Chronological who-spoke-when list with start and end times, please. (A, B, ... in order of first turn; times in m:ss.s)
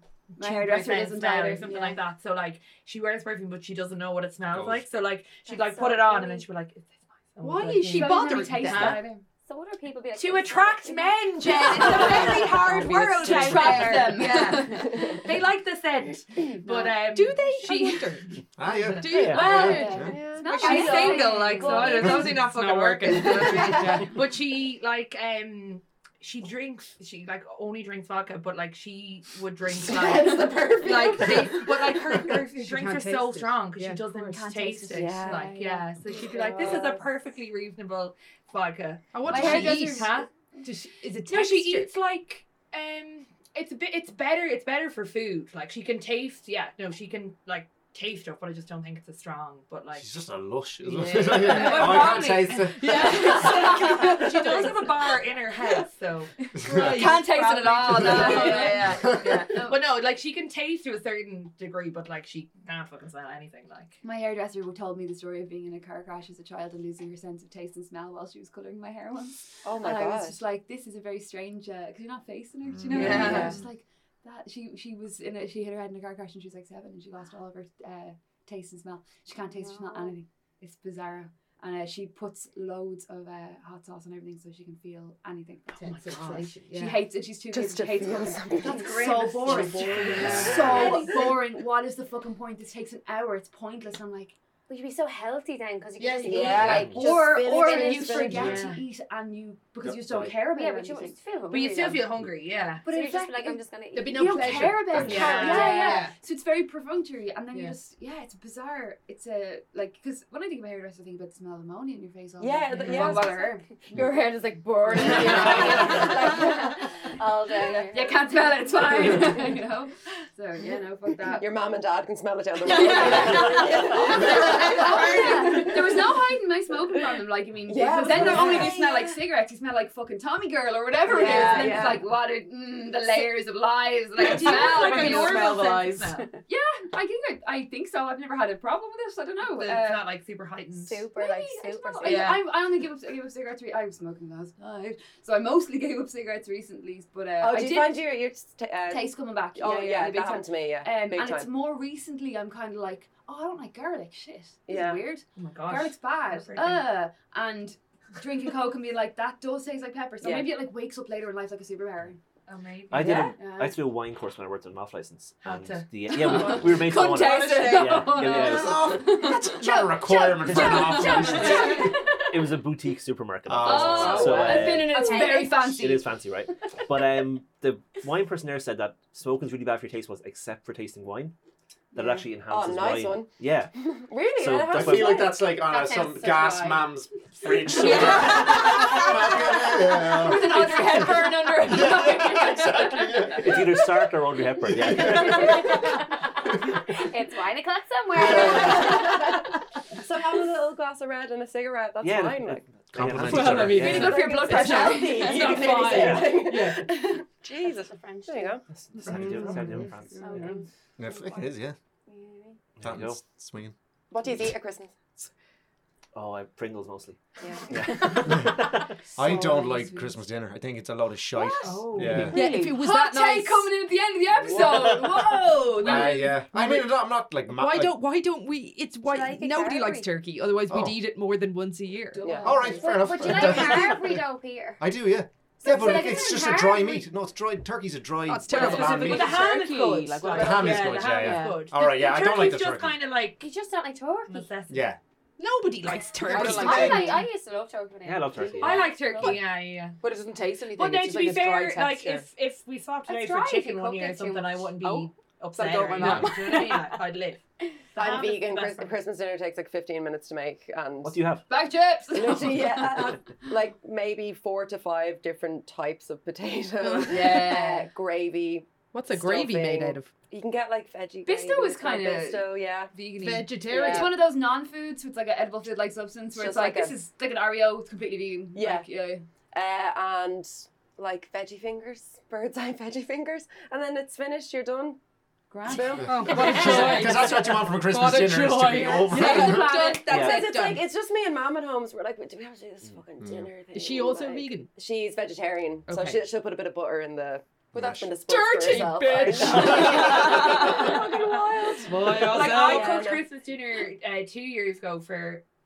0:00.3-0:09.1 A
0:00.4-0:02.0 B
0:04.4-0:04.8 C
0:05.4-0:06.4 D
0:07.4-0:09.0 E
0:07.9-0:09.2 B
0:09.4-0:12.1 D
0:10.2-0:40.3 A
0:11.7-0:15.3 B
0:11.8-0:12.2 F
0:12.9-0:13.6 C
0:13.8-0:14.0 F
0:14.9-0:15.2 F
0:16.7-0:17.0 B
0:17.0-0:18.4 E
0:18.6-0:20.2 C
0:19.0-0:21.2 E
0:19.1-0:19.4 G
0:19.4-0:22.5 B
0:19.8-0:22.1 D
0:19.8-0:21.1 F
0:22.4-0:24.2 E
0:29.8-0:32.4 F
0:32.6-0:34.4 E
0:34.2-0:35.8 B
0:34.9-0:35.5 F
0:36.0-0:37.1 D
0:39.1-0:41.9 E
0:39.3-0:40.1 B
0:41.2-0:50.1 A
0:49.9-0:53.4 C
0:50.8-1:04.0 A
0:51.3-0:54.7 B
0:51.7-0:52.1 E
0:52.7-0:54.9 E
0:56.4-0:59.9 B
0:56.6-0:57.3 E
0:56.7-0:57.0 C
0:58.5-0:58.8 E
0:59.0-0:59.4 C
1:04.0-1:34.4 B
1:09.6-1:10.4 F
1:12.6-1:13.2 C
1:12.9-1:13.6 A
1:12.9-1:13.5 H
1:13.2-1:13.5 E
1:25.8-1:26.5 A
1:26.1-1:26.4 F
1:26.6-1:27.0 E
1:27.5-1:28.9 F
1:28.5-1:31.3 A
1:29.5-1:31.0 E
1:30.1-1:31.2 F
1:30.1-1:30.9 C
1:34.7-1:38.6 D
1:36.0-1:38.3 E
1:36.3-1:37.1 F
1:36.3-1:41.2 B
1:37.0-1:38.8 A
1:39.8-1:40.4 C
1:40.5-1:42.1 D
1:41.5-1:43.5 A
1:42.8-1:44.4 D
1:42.8-1:43.6 B
1:43.9-1:46.1 E
1:44.1-1:53.7 B
1:44.2-1:45.7 A
1:44.8-1:45.2 C
1:45.1-1:45.8 F
1:45.5-1:46.0 D
1:52.4-1:53.5 F
1:52.8-1:59.3 D
1:55.0-1:56.8 B
1:55.2-1:56.1 F
1:57.6-2:01.4 B
2:01.2-2:06.2 F
2:02.6-2:15.6 B
2:03.1-2:05.7 A
2:07.6-2:09.2 F
2:08.2-2:08.8 A
2:11.1-2:12.1 F
2:11.2-2:11.7 A
2:14.2-2:16.3 A
2:14.9-2:15.4 H
2:15.3-2:15.7 F
2:16.4-2:20.1 B
2:19.4-2:21.1 A
2:20.8-2:22.3 D
2:21.1-2:28.0 B
2:22.0-2:22.5 A
2:27.4-2:31.5 F
2:28.9-2:42.2 B
2:34.7-2:35.0 F
2:35.3-2:36.9 A
2:40.2-2:40.5 F
2:42.5-2:43.3 A
2:42.9-2:49.1 G
2:43.0-2:43.4 F
2:43.3-2:43.8 B
2:45.4-2:46.6 A
2:46.1-2:52.6 B
2:46.9-2:48.0 E
2:48.4-2:51.8 C
2:50.6-2:51.9 D
2:51.4-2:51.8 A
2:52.2-3:01.3 G
2:53.4-2:54.4 C
2:53.6-2:56.1 B
2:53.7-2:54.8 F
2:54.5-2:55.7 D
3:01.9-3:05.3 G
3:02.0-3:05.4 F
3:04.7-3:13.9 C
3:05.6-3:06.9 D
3:07.7-3:09.2 A
3:08.2-3:13.8 B
3:13.4-3:16.0 G
3:14.6-3:15.8 C
3:16.9-3:19.3 D
3:18.2-3:18.7 C
3:18.2-3:19.4 F
3:20.0-3:22.6 F
3:22.0-3:24.3 G
3:22.9-3:24.0 C
3:23.1-3:26.9 E
3:23.3-3:23.9 A
3:23.5-3:29.7 F
3:23.8-3:25.9 B
3:25.9-3:26.3 G
3:27.8-3:28.6 D
3:28.7-3:30.4 G
3:28.9-3:30.4 B
3:30.2-3:30.6 H
3:31.0-3:31.8 C
3:32.1-3:32.6 D
3:32.8-3:33.2 G
3:32.8-3:33.7 C
3:34.1-3:35.3 F
3:36.1-3:39.0 G
3:37.4-3:37.8 F
3:38.2-3:38.5 C
3:39.1-3:42.4 C
3:39.2-3:40.2 B
3:39.2-3:39.7 E
3:41.6-3:46.5 B
3:41.6-3:42.8 H
3:41.6-3:42.0 A
3:42.2-3:43.8 E
3:44.5-3:46.9 E
3:45.8-3:48.0 C
3:47.5-3:52.3 E
3:49.0-3:50.1 D
3:50.7-3:51.0 C
3:52.1-3:53.4 B
3:52.2-3:52.5 F
3:52.4-3:54.1 C
3:52.7-3:54.8 D
3:53.1-3:54.2 E
3:54.8-3:59.4 C
3:55.6-3:57.1 D
3:58.2-4:00.2 E
3:58.5-4:03.4 A
3:58.9-4:01.6 H
4:00.3-4:03.0 C
4:03.4-4:04.5 D
4:04.3-4:04.9 A
4:04.7-4:05.0 C
4:05.4-4:07.2 E
4:06.2-4:07.2 H
4:06.3-4:09.3 D
4:08.0-4:08.9 G
4:08.5-4:10.0 A
4:08.6-4:09.3 B
4:10.0-4:12.3 H
4:10.7-4:19.0 A
4:13.1-4:14.6 D
4:14.8-4:16.8 H
4:18.0-4:21.4 F
4:21.0-4:21.4 G
4:21.5-4:23.5 B
4:22.1-4:33.0 F
4:26.8-4:27.4 E
4:27.1-4:27.9 B
4:28.9-4:30.1 E
4:31.2-4:39.2 B
4:33.2-4:34.1 E
4:33.6-4:34.2 F
4:36.3-4:37.0 F
4:38.5-4:38.9 F
4:39.5-4:45.0 F
4:45.5-4:47.1 B
4:45.6-4:47.5 F
4:46.0-4:49.8 C
4:46.0-4:50.9 E
4:48.7-5:03.3 F
4:49.0-4:50.1 B
4:50.1-4:50.4 G
4:53.2-4:53.5 C
4:53.7-4:54.7 E
4:55.8-4:56.2 E
4:57.7-4:58.1 C
4:58.2-5:00.4 E
4:59.8-5:05.4 A
5:01.8-5:03.0 E
5:02.1-5:03.0 H